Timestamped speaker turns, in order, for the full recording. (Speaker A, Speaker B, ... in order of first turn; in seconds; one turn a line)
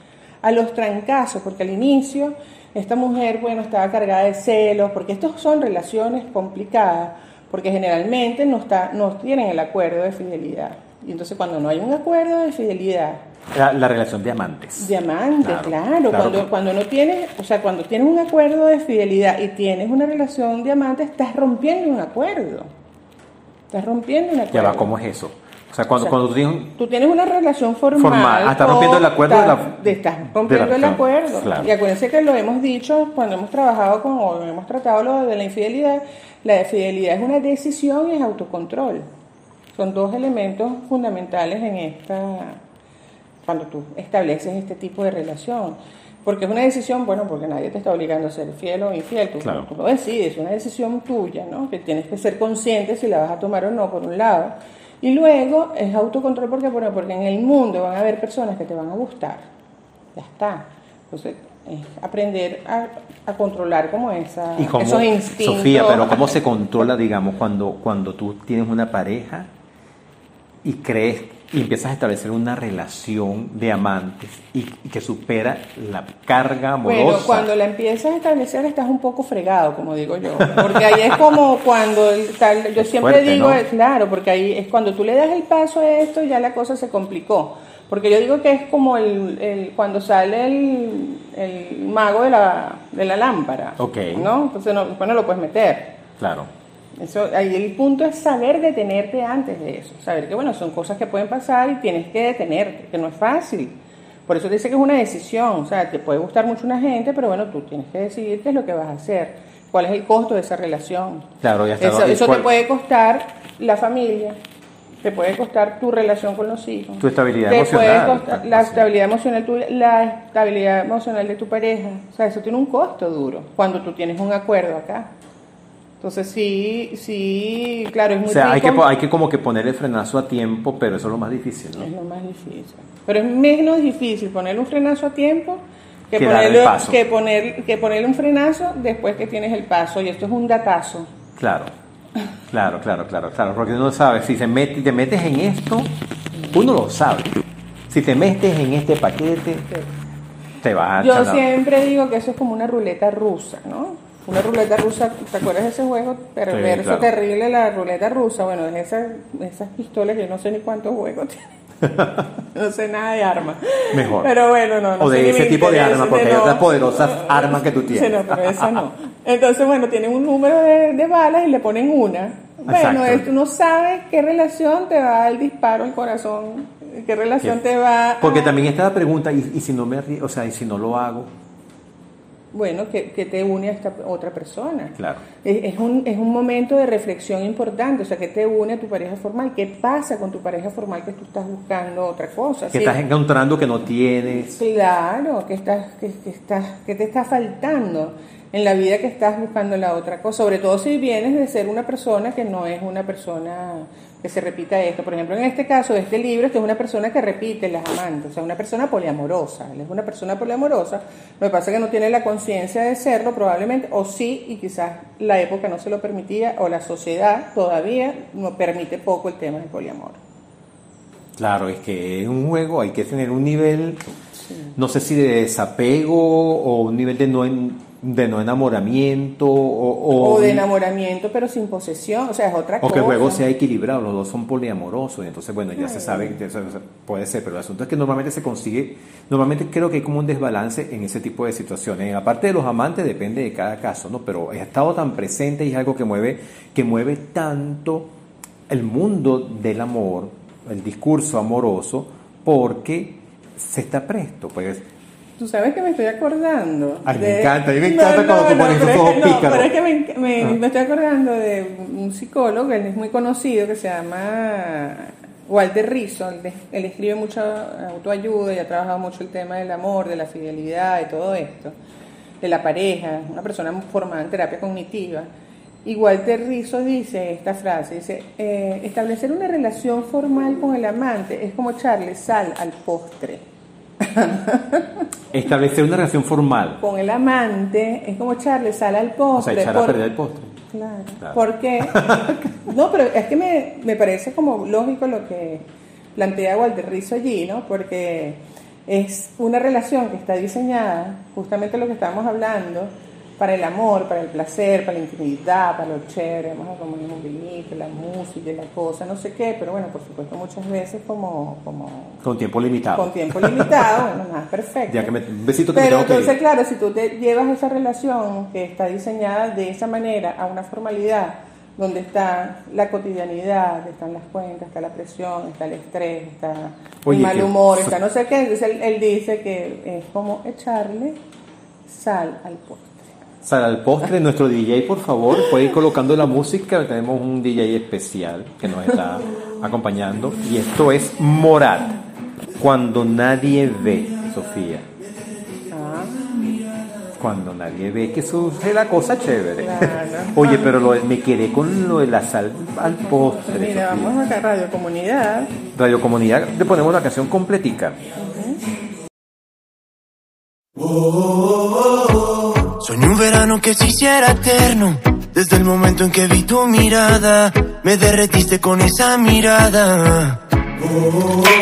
Speaker A: 0.4-13.2
Speaker B: 13.5-16.5
Speaker A: 14.8-22.7
Speaker A: 23.7-24.9
Speaker B: 24.5-26.7
Speaker A: 26.7-39.1
Speaker B: 27.9-31.7
Speaker A: 39.7-42.6
Speaker A: 43.5-59.5
Speaker B: 49.4-49.7
Speaker A: 60.1-66.3
Speaker B: 64.6-69.5
Speaker B: 70.6-77.5
Speaker A: 76.8-96.0
Speaker B: 80.4-80.8
Speaker B: 82.8-83.6
Speaker B: 93.8-94.3
Speaker B: 96.2-96.5
Speaker A: 97.0-111.3
Speaker B: 111.4-112.5
Speaker A: 111.8-114.4
Speaker A: 115.0-125.1
Speaker B: 117.0-118.9
Speaker A: 126.0-128.8
Speaker B: 128.3-131.9
Speaker A: 131.8-141.1
Speaker B: 136.2-137.0
Speaker B: 141.4-141.7
Speaker B: 142.5-145.9
Speaker B: 146.5-149.7
Speaker B: 150.6-151.4
Speaker A: 151.0-161.5
Speaker B: 156.5-157.1
Speaker B: 161.8-162.3
Speaker A: 162.5-178.6
Speaker B: 163.9-164.3
Speaker B: 165.0-168.8
Speaker B: 172.7-173.3
Speaker B: 178.2-181.3
Speaker A: 182.5-193.0
Speaker B: 185.0-185.2
Speaker B: 192.7-194.6
Speaker A: 194.5-220.2
Speaker B: 221.4-224.0
Speaker B: 224.7-230.7
Speaker A: 230.2-233.4
Speaker B: 232.8-248.1
Speaker A: 235.8-236.4
Speaker B: 248.7-254.8
Speaker A: 255.4-271.8
Speaker B: 257.1-259.7
Speaker A: 272.4-275.3
Speaker A: 275.8-283.4
Speaker A: 284.0-285.0
Speaker B: 285.3-286.8
Speaker A: 286.8-290.1
Speaker B: 289.4-290.5
Speaker A: 290.7-312.2
Speaker B: 291.2-292.5
Speaker B: 312.2-313.9
Speaker A: 312.9-315.1
Speaker B: 314.9-316.4
Speaker A: 315.7-331.2
Speaker B: 327.0-328.0
Speaker A: 331.9-333.1
Speaker B: 333.4-342.0
Speaker B: 342.6-344.9
Speaker A: 345.7-346.2
Speaker B: 347.1-354.2
Speaker A: 349.6-350.8
Speaker A: 352.8-355.5
Speaker B: 355.7-358.0
Speaker A: 358.2-358.6
Speaker C: 362.8-370.4